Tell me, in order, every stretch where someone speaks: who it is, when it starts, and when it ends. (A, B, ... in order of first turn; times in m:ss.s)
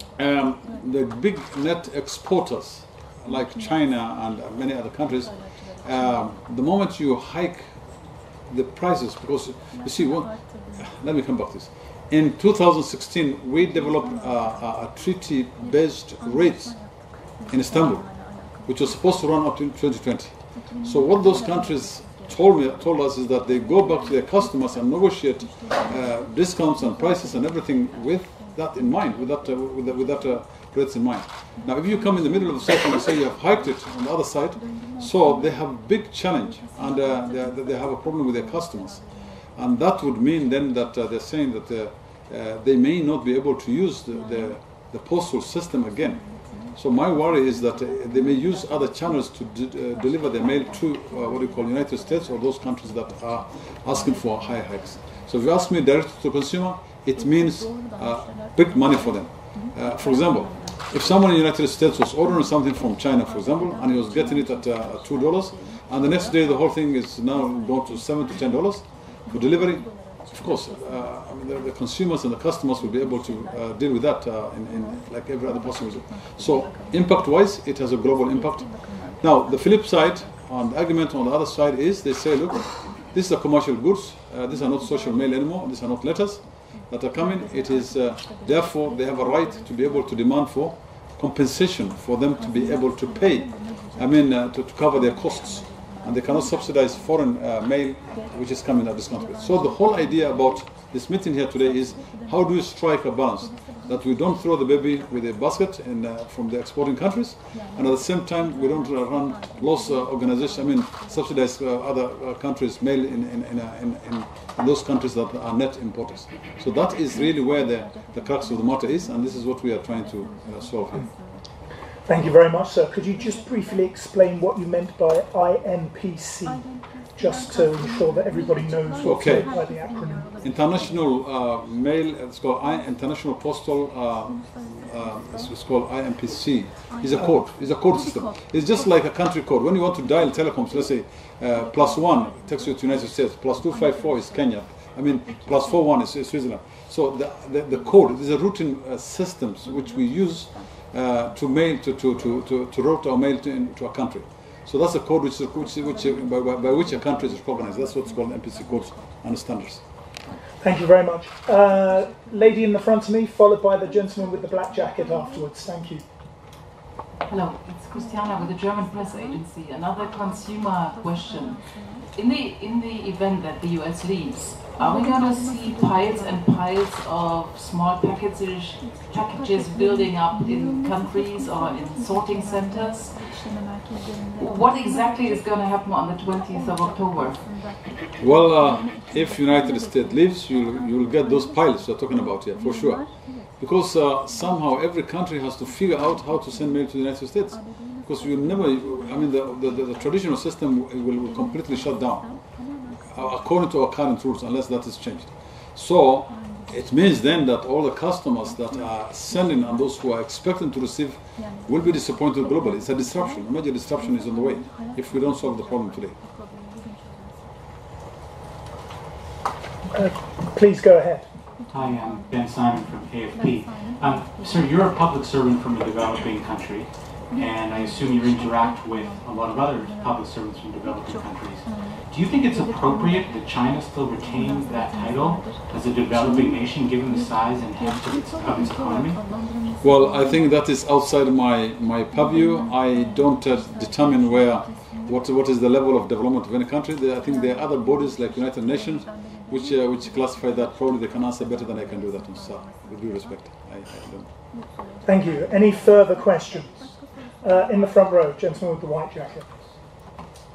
0:00.2-2:01.2 A
2:02.1-2:10.3 B
2:09.0-2:09.5 A
2:10.4-2:39.9 A
2:40.6-2:46.0 B
2:47.3-3:03.8 C
3:04.4-3:07.6 C
3:08.2-3:36.2 A
3:39.9-3:41.3 B
3:41.7-3:59.2 D
3:59.8-4:14.3 A
4:15.0-4:19.6 B